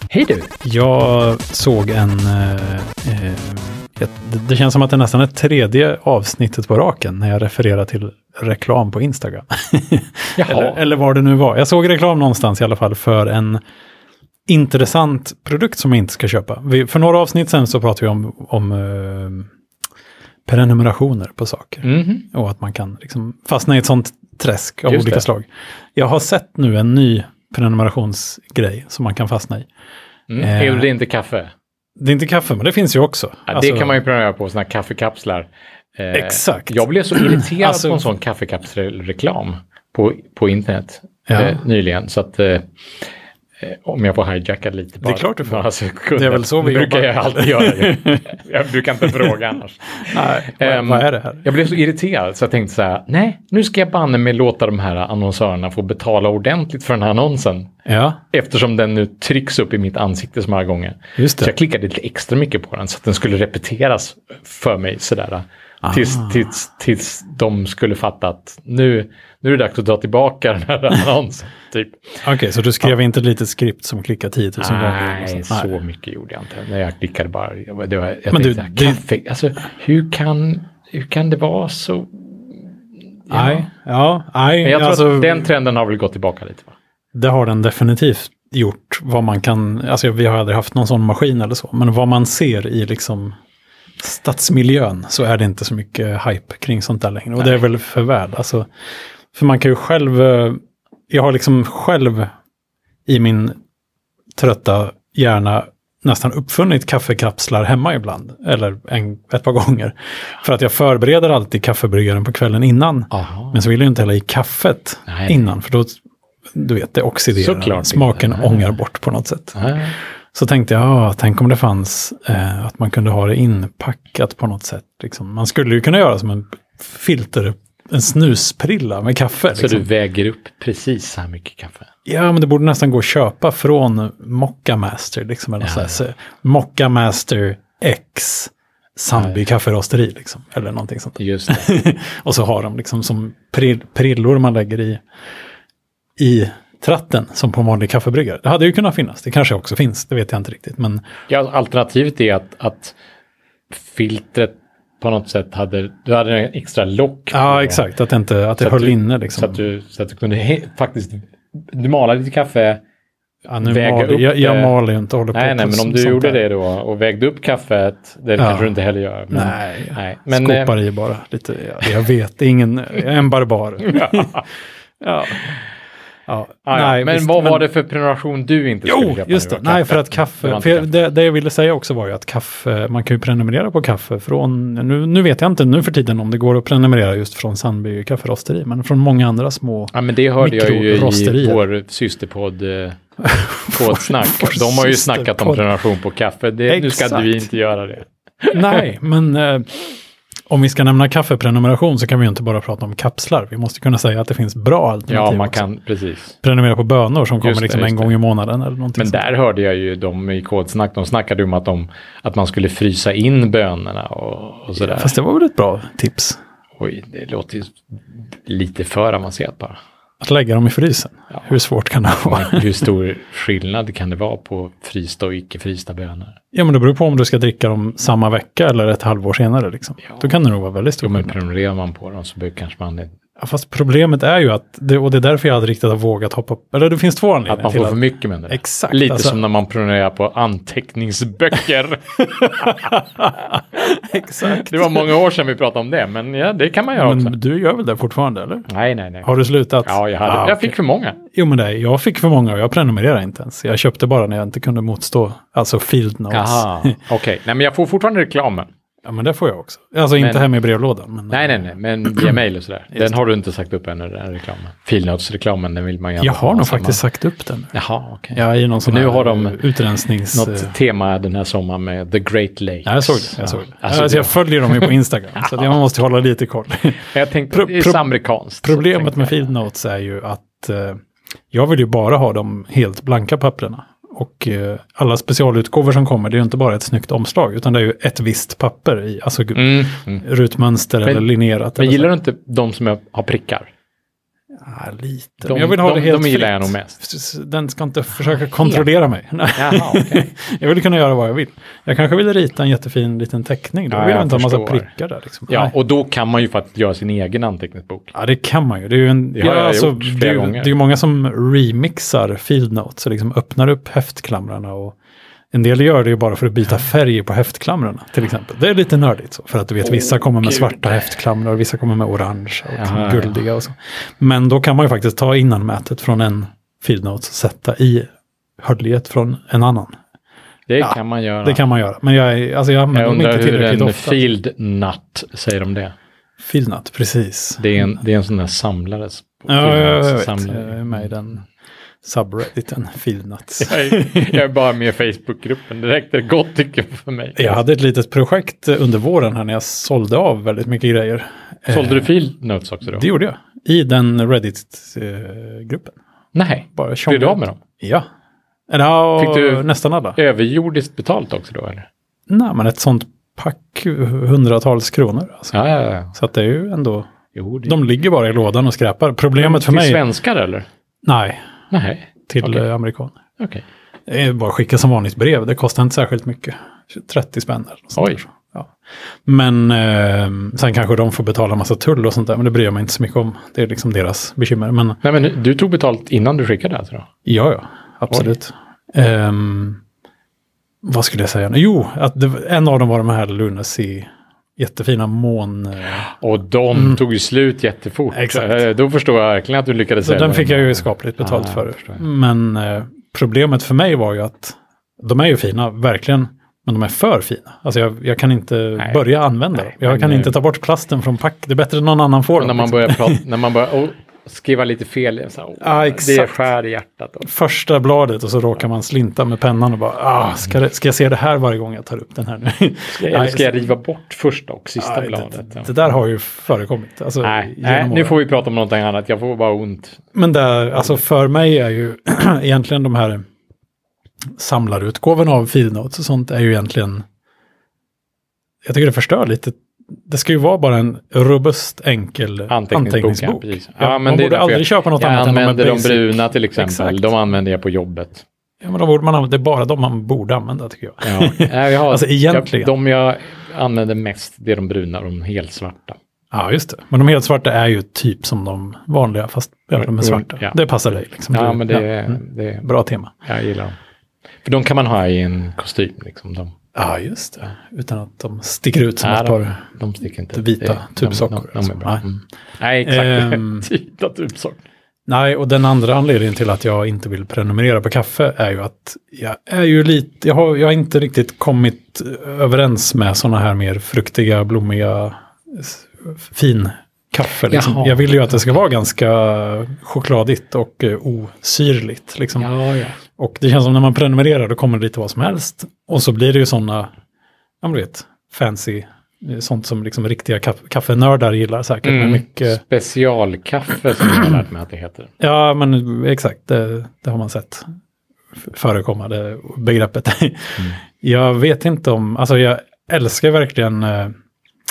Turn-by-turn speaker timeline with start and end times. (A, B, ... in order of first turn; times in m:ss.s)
0:00.1-0:00.5 A
0:00.6-0:13.6 B
0:10.4-0:10.8 A
0:14.5-0:19.5 B
0:20.5-0:29.7 B
0:21.8-0:22.2 A
0:24.9-0:25.3 A
0:30.3-0:31.5 A
0:30.4-0:30.9 B
0:32.0-0:34.0 B
0:33.5-0:42.7 A
0:36.1-0:38.0 B
0:41.3-0:41.6 B
0:43.6-0:57.7 A
0:45.0-0:48.3 B
0:50.0-0:51.5 B
0:57.9-0:58.2 B
0:58.3-1:12.2 A
1:01.2-1:01.5 B
1:05.8-1:06.5 B
1:12.2-1:15.7 B
1:14.6-1:22.7 A
1:18.3-1:19.0 B
1:23.3-1:23.7 A
1:23.3-1:25.5 B
1:24.6-1:26.7 A
1:27.1-1:33.4 B
1:34.0-1:38.7 B
1:39.3-1:42.3 B
1:43.1-1:43.6 B
1:44.4-1:56.0 B
1:53.1-1:53.6 A
1:55.1-1:55.4 A
1:56.5-1:59.6 B
1:57.4-1:58.7 A
1:59.6-1:59.9 A
2:00.3-2:09.9 B
2:09.5-2:11.9 A
2:12.1-2:25.0 B
2:15.6-2:16.0 A
2:21.2-2:21.7 A
2:26.2-2:31.0 B
2:31.3-2:33.0 A
2:33.7-2:37.8 A
2:37.3-2:39.6 B
2:38.6-2:42.8 A
2:43.5-2:46.4 B
2:43.6-2:44.8 A
2:45.3-2:50.7 A
2:48.4-2:48.7 B
2:49.3-2:54.4 B
2:53.9-2:54.4 A
2:55.0-2:55.6 B
2:56.3-2:57.6 B
2:56.6-3:00.9 A
2:58.9-3:11.6 B
3:09.9-3:13.0 A
3:13.2-3:15.8 B
3:13.7-3:18.8 A
3:16.7-3:17.5 B
3:18.5-3:19.8 B
3:20.5-3:25.7 B
3:25.1-3:26.4 A
3:26.4-3:29.3 B
3:27.4-3:28.1 A
3:29.0-3:35.2 A
3:34.8-3:36.4 B
3:36.8-3:37.8 A
3:38.4-3:39.8 A
3:40.2-3:42.7 B
3:42.2-3:46.4 A
3:46.5-3:51.3 B
3:51.0-3:53.1 A
3:53.4-3:59.4 B
3:57.5-4:03.4 A
4:02.6-4:05.1 B
4:04.4-4:07.4 A
4:07.0-4:08.7 B
4:08.7-4:09.3 A
4:09.2-4:17.0 B
4:09.8-4:11.2 A
4:16.3-4:18.7 A
4:19.0-4:22.3 B
4:20.2-4:20.5 A
4:21.3-4:27.0 A
4:26.2-4:27.7 B
4:27.7-4:29.6 A
4:28.3-4:30.7 B
4:30.3-4:35.6 A
4:32.8-4:38.1 B
4:37.1-4:39.5 A
4:38.6-4:52.1 B
4:49.6-4:50.2 A
4:51.8-4:53.7 A
4:54.6-5:05.7 B
4:55.4-4:57.0 A
4:59.6-5:00.3 A
5:03.9-5:04.9 A
5:05.5-5:08.1 A
5:08.1-5:15.0 B
5:09.4-5:10.7 A
5:15.5-5:28.1 B
5:20.4-5:21.0 A
5:22.7-5:23.4 A
5:28.6-5:30.0 B
5:30.7-5:31.6 A
5:30.8-5:34.2 B
5:32.9-5:35.9 A
5:36.4-5:38.0 B
5:37.6-5:41.1 A
5:39.5-5:41.4 B
5:42.0-5:44.4 B
5:43.6-5:47.6 A
5:47.4-5:52.1 B
5:51.7-5:53.0 A
5:52.9-5:56.0 B
5:56.3-5:57.6 A
5:56.7-5:58.1 B
5:58.7-6:00.2 B
5:59.2-6:01.9 A
6:02.3-6:05.5 B
6:05.5-6:06.1 A
6:06.1-6:07.1 B
6:07.4-6:07.7 A
6:07.7-6:10.0 B
6:09.4-6:10.7 A
6:11.0-6:11.4 B
6:11.7-6:12.6 A
6:12.3-6:13.2 B
6:13.4-6:13.6 A
6:14.1-6:18.7 B
6:18.0-6:18.2 A
6:19.3-6:25.0 B
6:25.0-6:27.1 A
6:27.2-6:29.8 B
6:30.8-6:36.1 B
6:36.0-6:42.0 A
6:36.7-6:37.0 B
6:38.1-6:38.7 B
6:40.0-6:53.2 B
6:49.6-6:50.4 A
6:52.4-6:57.3 A
6:55.6-6:56.4 B
6:57.2-7:03.5 B
7:02.9-7:05.9 A
7:04.8-7:08.2 B
7:07.2-7:10.0 A
7:10.1-7:13.2 B
7:14.4-7:17.0 B
7:18.6-7:27.1 B
7:22.5-7:28.2 A
7:28.6-7:32.7 B
7:31.0-7:36.0 A
7:36.3-7:43.1 B
7:39.8-7:40.6 A
7:41.3-7:42.7 A
7:43.2-7:43.8 A
7:44.4-7:46.5 A
7:46.8-7:49.6 B
7:49.0-7:54.6 A
7:50.3-7:52.0 B
7:52.8-7:53.7 B
7:55.1-8:12.5 B
8:07.5-8:08.5 A
8:12.4-8:13.0 A
8:13.2-8:16.9 B
8:17.6-8:22.6 B
8:21.8-8:25.1 A
8:25.2-8:27.7 B
8:28.4-8:34.1 B